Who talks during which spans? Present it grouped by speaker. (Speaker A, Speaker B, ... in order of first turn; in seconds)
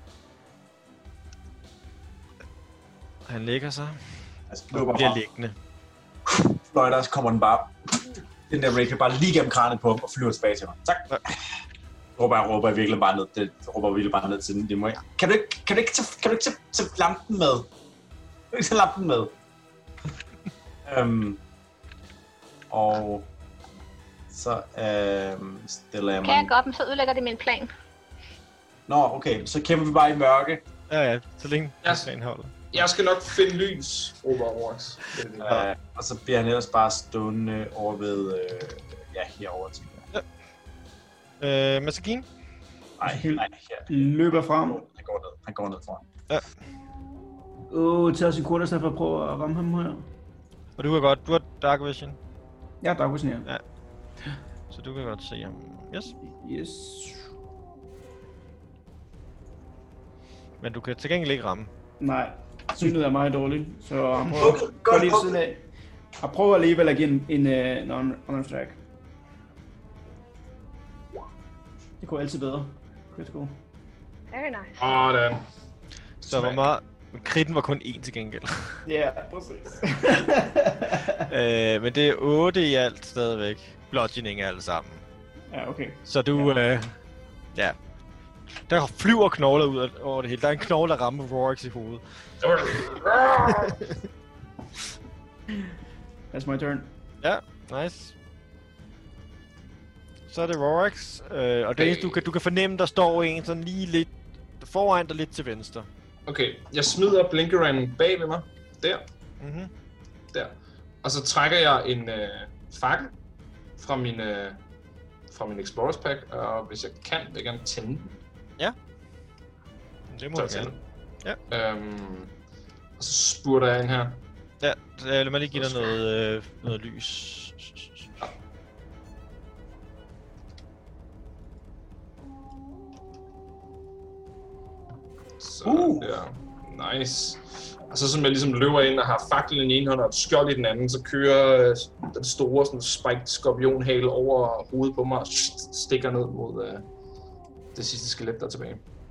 Speaker A: 3.3-4.0, 4.7-5.5, 30.9-32.8, 41.4-42.3, 50.8-52.2, 54.7-56.1, 60.6-61.7, 76.2-78.8, 81.3-85.0, 86.1-86.9, 88.7-92.0, 93.5-94.0, 97.2-98.1, 100.3-105.9, 109.4-109.7, 120.1-121.4, 124.6-128.1
Speaker B: 4.5-5.2, 6.3-11.4, 12.2-17.7, 18.5-19.3, 20.9-21.4, 22.7-23.3, 24.3-26.5, 28.9-30.6, 35.4-40.1, 43.0-46.0, 64.3-65.4, 135.7-136.1
Speaker C: 26.2-27.7, 74.3-74.9
Speaker D: 31.8-32.1, 32.7-35.7, 74.8-75.5, 76.3-76.6, 92.4-93.7, 101.8-102.3, 106.3-109.0, 110.3-113.2, 113.8-114.6, 115.3-118.2, 120.3-120.8, 121.5-122.3, 123.0-124.2, 125.6-126.0, 135.4-146.9, 147.7-148.8
Speaker E: 43.0-44.8, 47.7-50.1, 52.8-53.5, 56.2-57.3, 62.0-65.6, 66.2-68.8, 72.0-73.6, 78.9-81.2, 85.5-86.5, 96.3-96.9